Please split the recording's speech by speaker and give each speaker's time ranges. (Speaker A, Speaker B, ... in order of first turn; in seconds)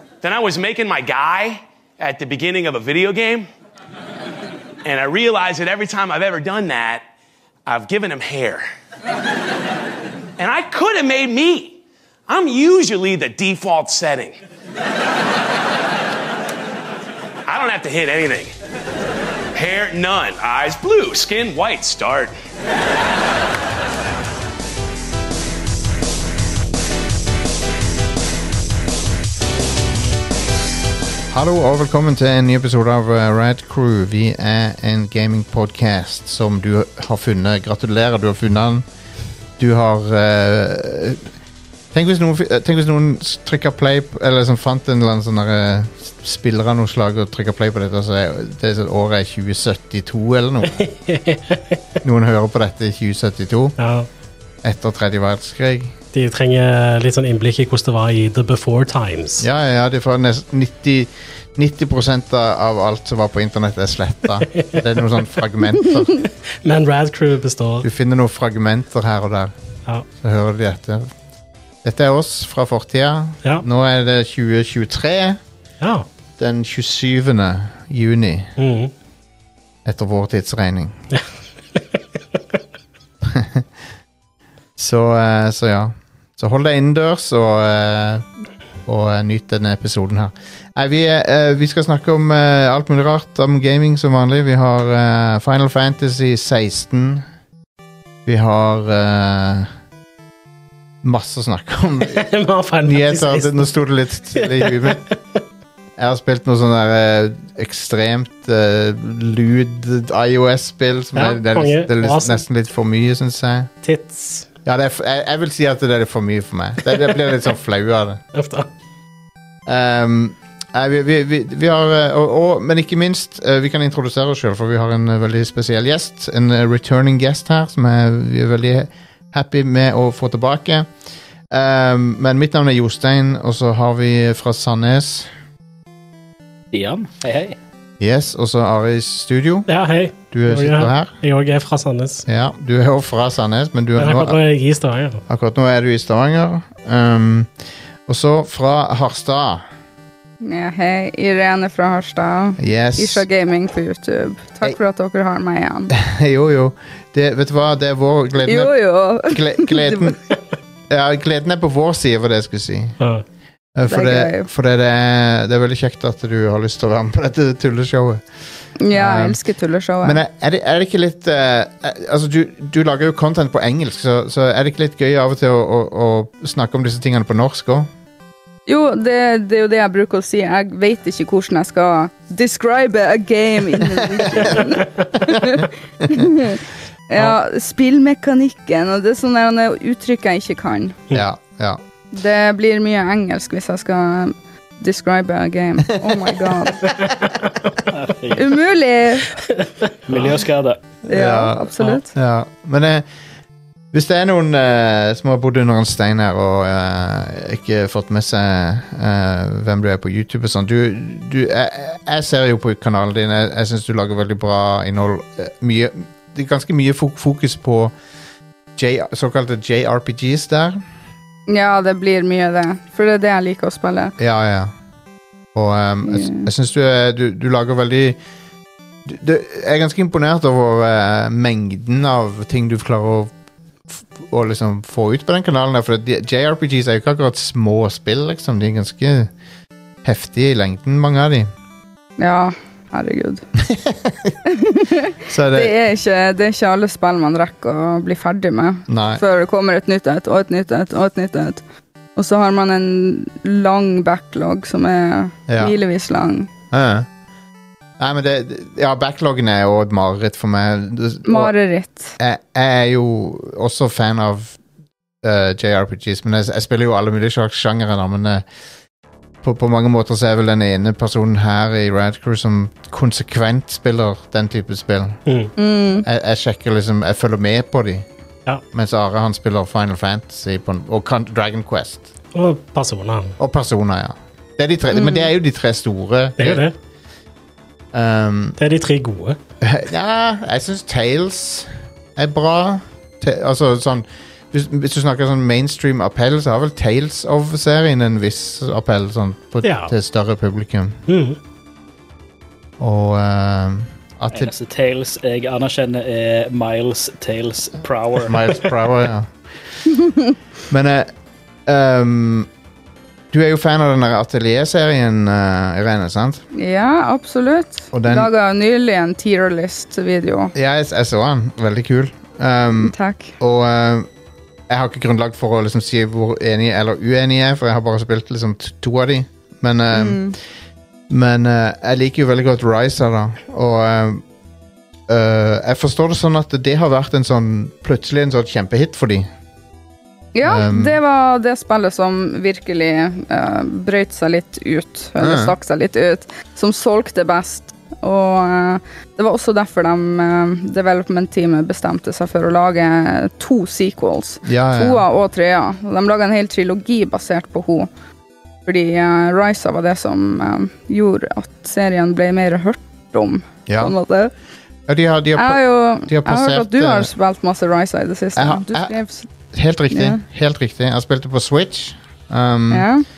Speaker A: 0.2-3.5, 4.8-7.0, 7.7-8.6, 10.4-14.4, 17.5-18.5, 19.5-22.3
Speaker B: 31.3-38.8, 39.6-41.2, 41.9-50.8, 52.0-53.8, 54.6-56.0, 59.4-66.1, 67.8-69.5, 70.2-71.1, 71.8-75.4, 76.4-78.5, 79.8-81.0, 83.2-83.7, 84.8-88.3, 88.8-97.2, 98.2-99.7, 101.0-102.2, 102.8-105.0, 106.0-113.7, 114.6-118.2, 119.7-130.9, 131.5-135.3, 138.0-139.7, 140.3-141.2, 142.3-144.4, 145.3-147.5, 148.1-149.6, 152.6-153.2, 155.9-160.2, 160.9-163.0, 163.7-168.2, 168.9-169.4, 170.0-177.9, 183.8-184.6, 185.3-185.6, 191.1-191.8, 196.0-197.1, 201.1-203.1, 203.9-217.9, 218.8-220.8, 224.2-224.7, 225.5-228.2, 229.0-233.3, 233.9-239.3, 240.0-241.5, 243.6-244.3, 245.3-245.7, 248.9-249.2, 255.5-255.7, 256.7-257.1, 258.0-261.5, 262.2-264.6, 265.2-268.4, 269.4-275.2, 276.0-278.1, 278.7-282.1, 283.4-286.6, 287.9-288.6, 289.6-301.0, 302.8-304.5, 308.2-309.3, 310.7-311.1, 311.6-312.5, 313.3-316.4, 317.9-318.3, 320.5-324.1, 324.7-330.3, 331.1-334.2, 335.1-339.3, 340.4-341.0, 345.2-345.5, 354.4-355.0, 363.7-363.9, 364.9-367.1, 368.4-368.9, 369.5-372.9
Speaker C: 50.8-51.8, 53.8-54.1, 56.1-59.5, 64.5-64.8, 66.1-67.8, 75.8-76.0, 78.6-78.9, 81.1-82.0, 102.1-103.7, 104.4-105.1, 111.1-112.4, 113.8-114.5, 118.3-118.7, 139.7-142.2, 144.0-145.2, 199.6-200.3, 275.2-275.5, 282.3-283.3, 286.4-286.7, 288.6-289.4, 299.6-299.9, 301.1-301.4
Speaker D: 136.7-137.6, 197.9-198.5, 200.1-200.8, 304.3-308.5
Speaker E: 150.4-155.9, 158.4-160.2, 163.9-164.5, 168.8-170.2, 178.7-191.0, 192.1-196.9, 198.3-199.3, 201.1-202.1, 221.5-224.1, 226.1-226.5, 242.2-243.4, 244.4-251.6, 252.2-256.5, 261.2-262.1, 275.6-276.0, 284.9-285.3, 316.5-320.5, 322.8-323.3, 329.9-330.4, 340.3-357.9, 358.6-364.3, 365.4-369.3, 369.9-370.2, 372.7-373.0